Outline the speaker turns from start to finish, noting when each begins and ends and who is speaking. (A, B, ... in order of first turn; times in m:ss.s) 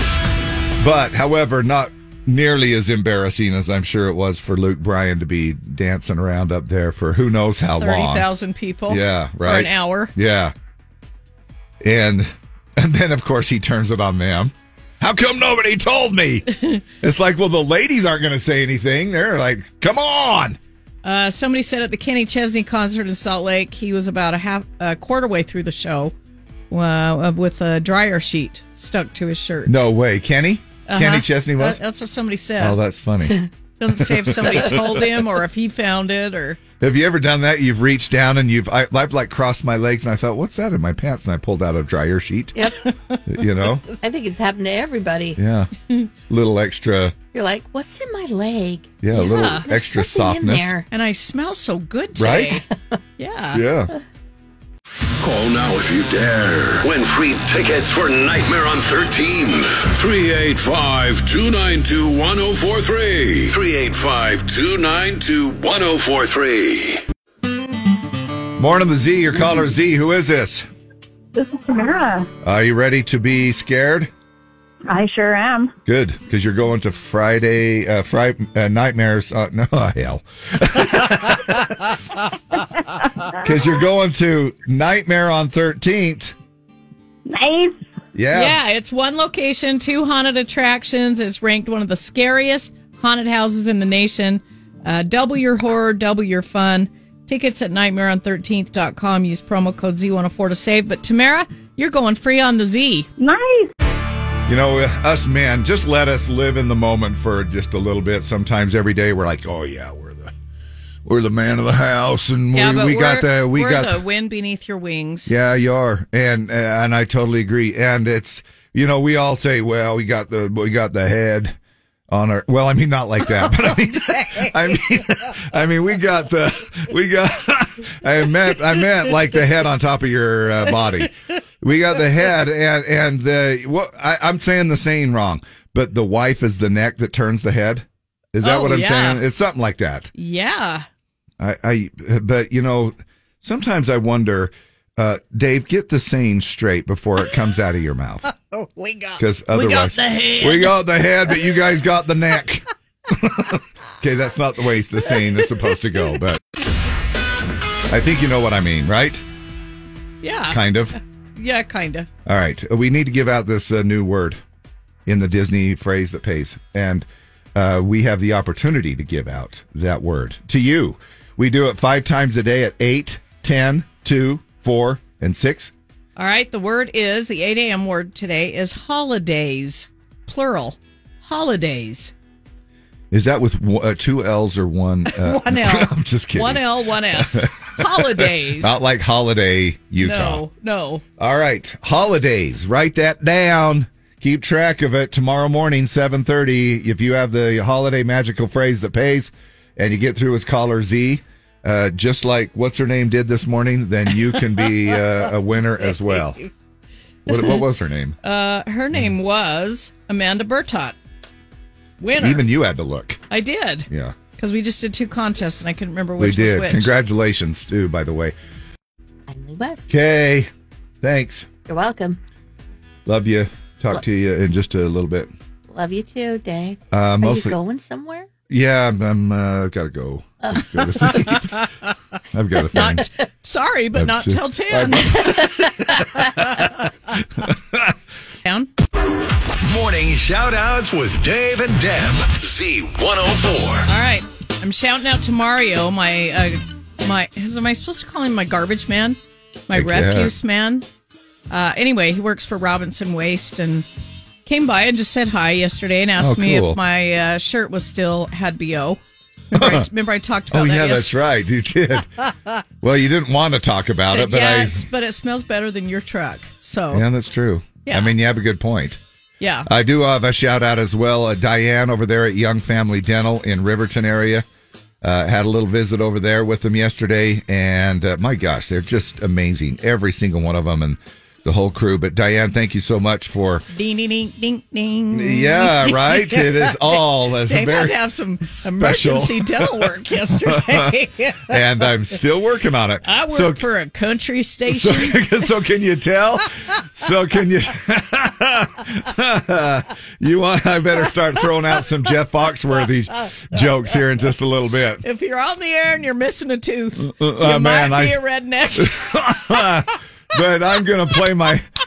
0:00.8-0:08.3 A
0:07.8-0:10.1 B
0:08.9-0:10.5 A
0:11.8-0:16.5 A
0:17.0-0:20.6 A
0:21.0-0:26.1 B
0:26.7-0:29.8 B
0:29.7-0:31.8 A
0:30.9-0:32.8 B
0:32.6-0:33.4 A
0:33.8-0:36.6 B
0:34.0-0:34.8 A
0:36.8-0:42.6 A
0:43.3-0:43.8 A
0:44.0-0:45.4 C
0:45.4-0:45.7 A
0:46.3-0:47.2 A
0:47.3-0:50.9 C
0:49.0-0:50.7 A
0:49.2-0:49.7 B
0:50.9-0:52.6 B
0:52.2-0:52.6 A
0:52.7-0:53.0 C
0:53.2-0:53.6 B
0:53.5-0:53.9 A
0:55.2-1:07.0 D
1:08.6-1:10.7 A
1:11.4-1:12.3 E
1:12.4-1:14.1 A
1:14.9-1:15.7 E
1:15.9-1:21.6 A
1:23.4-1:26.4 A
1:27.3-1:27.8 E
1:28.2-1:28.6 A
1:28.3-1:43.1 B
1:43.2-1:43.7 E
1:44.5-1:50.3 A
1:51.1-1:54.0 A
1:52.5-1:55.3 B
1:55.3-2:01.6 A
2:02.1-2:20.1 A
2:18.4-2:19.2 B
2:20.2-2:20.9 B
2:21.4-2:28.3 A
2:28.4-2:30.7 B
2:29.2-2:36.4 A
2:37.9-2:39.2 A
2:40.2-2:40.6 B
2:40.5-2:41.0 A
2:41.4-2:42.1 B
2:42.3-2:44.4 A
2:45.1-2:55.7 A
2:56.2-3:02.1 B
3:03.1-3:10.4 A
3:05.1-3:08.7 B
3:10.0-3:11.0 B
3:11.2-3:26.4 A
3:27.3-3:28.2 A
3:28.2-3:31.0 B
3:32.0-3:32.4 B
3:32.2-3:33.2 A
3:33.3-3:36.9 B
3:33.9-3:34.2 A
3:36.2-3:38.4 A
3:39.3-3:39.9 C
3:39.9-3:40.5 A
3:41.0-3:41.5 A
3:41.7-3:42.2 C
3:43.1-3:45.3 A
3:45.7-3:48.3 C
3:46.9-3:47.6 A
3:48.5-3:51.7 A
3:52.3-3:53.1 A
3:52.7-3:55.7 B
3:54.0-3:55.8 A
3:57.4-3:57.8 A
3:58.4-3:58.7 B
3:59.6-4:03.9 D
4:03.9-4:09.2 B
4:09.7-4:10.9 B
4:09.7-4:10.3 A
4:11.5-4:13.9 B
4:14.4-4:19.0 B
4:16.2-4:16.8 A
4:19.5-4:21.1 B
4:19.6-4:19.9 A
4:20.5-4:22.2 A
4:22.8-4:24.8 A
4:24.1-4:27.0 B
4:26.9-4:29.0 A
4:27.9-4:28.1 B
4:29.4-4:29.7 B
4:29.7-4:34.4 A
4:35.0-4:43.7 A
4:43.7-4:51.4 B
4:45.1-4:48.0 A
4:48.6-4:50.9 A
4:51.5-4:53.6 A
4:53.1-4:55.2 B
4:54.7-5:05.0 A
5:05.0-5:09.0 B
5:07.0-5:08.2 A
5:08.8-5:11.7 A